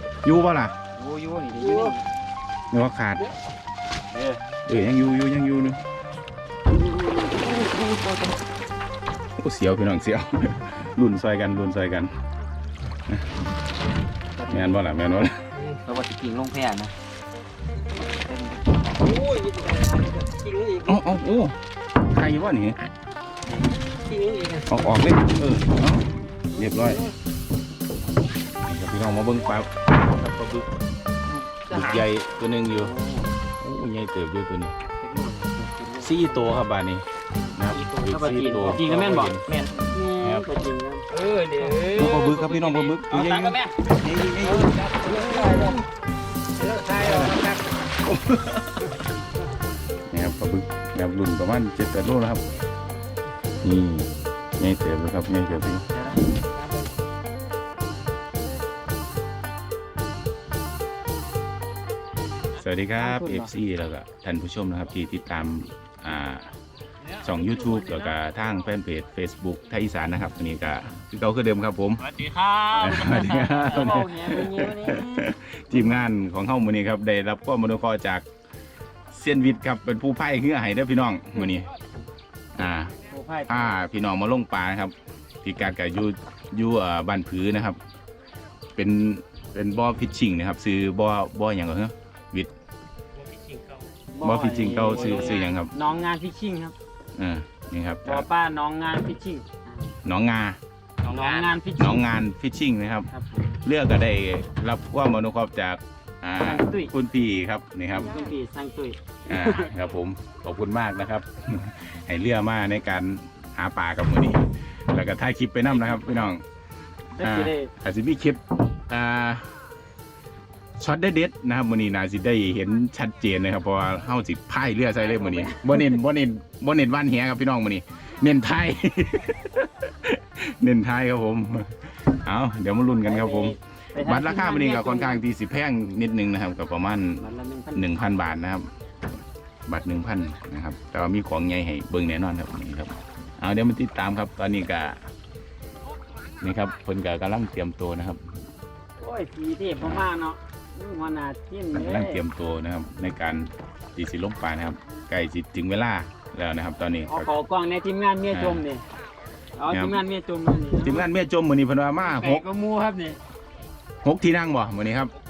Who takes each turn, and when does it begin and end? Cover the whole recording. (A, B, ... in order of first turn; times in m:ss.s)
0:00.2-0:00.8 A
0:00.9-0:02.0 B
0:01.6-0:01.9 C
0:02.7-0:03.3 A
0:04.1-0:04.4 B
0:04.6-0:05.8 A
0:07.3-0:08.4 B
0:09.4-0:12.1 A
0:14.4-0:14.9 B
0:14.5-0:15.4 A
0:15.5-0:15.8 C
0:15.8-0:16.9 B
0:18.1-0:18.8 B
0:19.0-0:21.0 C
0:20.8-0:21.6 A
0:22.1-0:22.8 A
0:23.9-0:24.8 C
0:24.7-0:27.0 A
0:26.6-0:27.0 C
0:28.6-0:30.7 A
0:31.7-0:32.9 A
0:31.7-0:32.0 B
0:32.7-0:33.3 B
0:33.6-0:34.7 A
0:34.9-0:36.5 B
0:36.0-0:40.5 A
0:37.7-0:43.7 B
0:41.9-0:45.8 A
0:44.4-0:45.8 C
0:46.6-0:47.8 C
0:47.0-0:47.4 A
0:48.0-0:48.8 A
0:50.1-0:52.4 A
0:53.6-0:55.8 A
0:55.9-0:56.3 B
0:56.5-0:56.9 C
1:02.6-1:06.5 A
1:03.0-1:03.5 B
1:07.2-1:12.2 A
1:12.0-1:15.3 B
1:12.7-1:18.2 A
1:19.1-1:21.7 A
1:22.6-1:22.9 A
1:23.1-1:23.7 B
1:23.5-1:27.8 A
1:28.8-1:32.5 A
1:34.1-1:36.7 B
1:34.2-1:35.7 A
1:37.2-1:38.3 A
1:38.0-1:39.9 B
1:40.0-1:40.6 A
1:41.0-1:42.1 B
1:41.1-1:43.1 A
1:43.1-1:43.5 B
1:43.6-1:48.3 A
1:46.4-1:46.9 B
1:47.9-1:49.7 B
1:49.3-1:56.4 A
1:57.2-1:57.7 B
1:57.2-1:59.5 A
2:00.8-2:18.7 A
2:05.0-2:05.8 B
2:13.0-2:15.2 B
2:17.2-2:17.9 B
2:19.6-2:25.0 A
2:26.4-2:28.2 A
2:29.0-2:32.2 B
2:29.8-2:30.0 A
2:31.7-2:37.3 A
2:37.1-2:38.8 B
2:38.3-2:38.6 A
2:39.6-2:41.0 B
2:39.7-2:40.0 A
2:40.8-2:42.4 A
2:42.0-2:43.2 B
2:44.0-2:45.1 A